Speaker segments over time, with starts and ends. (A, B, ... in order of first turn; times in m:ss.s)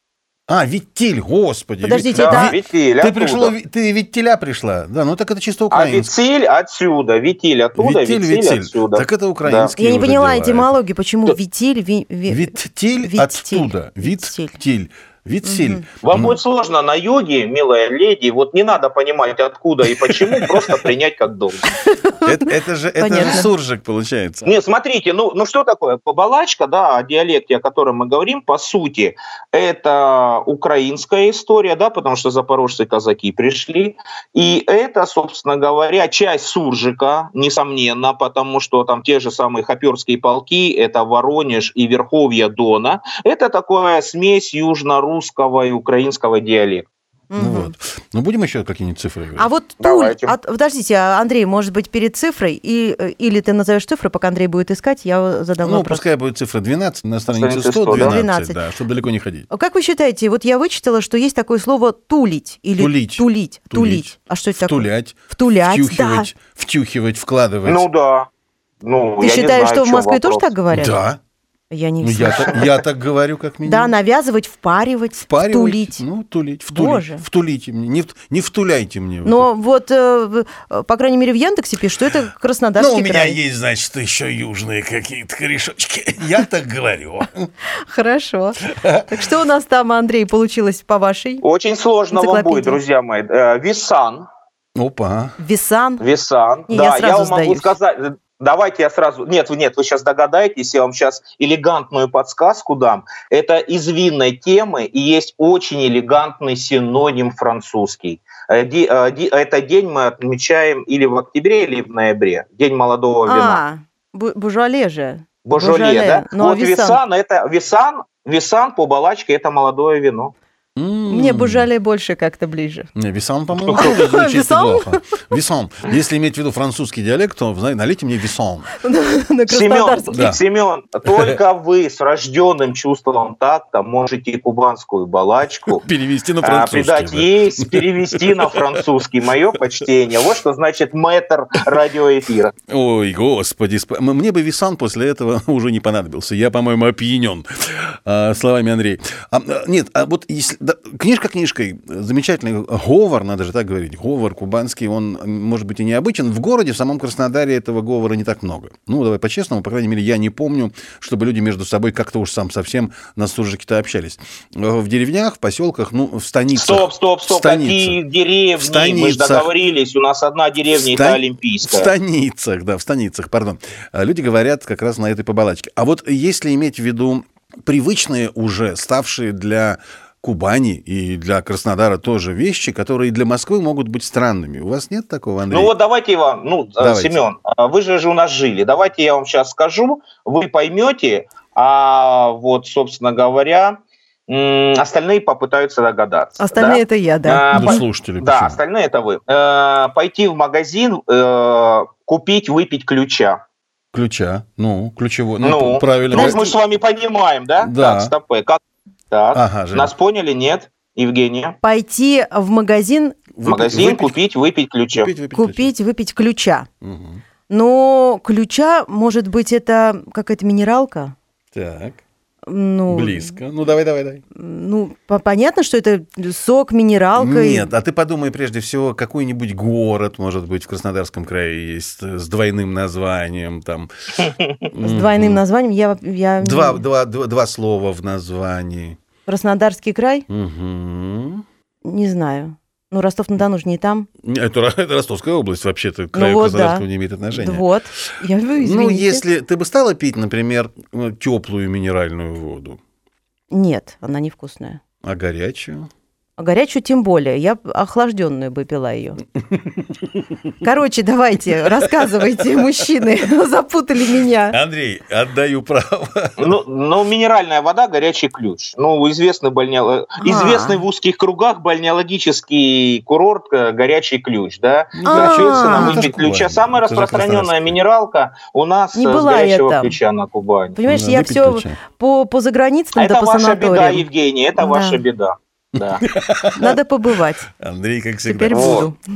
0:00.5-0:06.1 A
0:01.8-0:02.6 B
0:02.1-0:03.5 C
0:05.7-0:09.7 C
0:07.8-0:10.7 A
0:09.8-0:14.6 B
0:12.3-0:16.4 A
0:15.4-0:15.8 B
0:16.0-0:21.7 C
0:21.7-0:23.5 B
0:22.2-0:24.6 A
0:24.4-0:46.8 C
0:47.3-0:47.7 B
0:47.4-0:49.5 A
0:49.4-0:56.0 B
0:49.8-0:50.3 C
0:55.6-0:59.5 A
0:57.3-0:58.2 C
0:57.9-0:58.6 B
0:59.5-1:06.3 B
1:02.8-1:07.8 A
1:07.6-1:08.3 C
1:08.8-1:10.5 C
1:09.2-1:11.0 B
1:10.7-1:11.2 A
1:11.7-1:12.6 B
1:12.0-1:13.9 A
1:13.6-1:16.0 B
1:15.2-1:19.5 A
1:16.7-1:17.2 B
1:19.2-1:23.4 B
1:22.8-1:27.5 A
1:27.9-1:31.4 B
1:28.7-1:29.2 A
1:31.4-1:34.3 C
1:32.1-1:32.8 B
1:34.8-1:35.4 A
1:35.4-1:36.0 B
1:36.0-1:53.6 C
1:36.7-1:37.7 B
1:53.2-1:57.0 B
1:55.4-2:00.3 C
2:00.8-2:01.7 A
2:01.1-2:02.9 B
2:03.0-2:08.7 A
2:03.5-2:03.9 C
2:03.8-2:05.0 B
2:08.8-2:10.2 B
2:09.5-2:15.8 C
2:10.1-2:10.4 A
2:11.1-2:11.4 A
2:15.7-2:18.8 A
2:16.4-2:22.5 C
2:22.7-2:48.0 A
2:46.5-2:51.9 C
2:48.6-2:49.5 A
2:50.7-3:05.7 A
3:05.5-3:13.8 C
3:06.8-3:07.2 A
3:14.3-3:23.4 C
3:16.4-3:17.8 B
3:17.5-3:18.6 A
3:23.9-3:26.4 A
3:25.4-3:28.6 C
3:26.1-3:26.5 B
3:27.6-3:28.1 A
3:29.1-3:31.6 C
3:29.3-3:29.9 A
3:31.6-3:33.2 B
3:33.3-3:34.2 A
3:33.4-3:35.1 C
3:34.9-3:35.7 A
3:35.3-3:36.7 B
3:36.8-3:37.2 A
3:37.5-3:41.1 B
3:41.5-3:42.0 A
3:42.5-3:43.4 B
3:42.9-3:44.2 A
3:44.3-3:47.7 B
3:47.2-3:53.9 A
3:54.2-3:54.6 C
3:54.7-3:55.4 A
3:54.8-3:56.8 B
3:56.4-3:59.0 A
3:59.2-4:00.3 B
4:00.3-4:01.4 A
4:01.8-4:04.1 B
4:04.2-4:07.7 A
4:06.1-4:09.2 B
4:08.6-4:12.8 A
4:13.5-4:14.8 B
4:15.0-4:15.9 A
4:16.4-4:19.2 B
4:19.5-4:20.3 A
4:20.6-4:24.6 B
4:21.7-4:22.6 A
4:24.5-4:26.6 A
4:26.4-4:40.8 C
4:30.2-4:30.8 B
4:35.0-4:37.8 A
4:35.0-4:36.0 B
4:38.9-4:40.0 B
4:40.8-4:44.0 B
4:40.9-4:41.8 A
4:43.0-4:46.0 C
4:44.6-4:45.0 B
4:45.8-4:46.8 A
4:46.6-4:47.5 B
4:47.6-4:48.9 A
4:48.2-4:49.0 B
4:48.5-4:48.9 C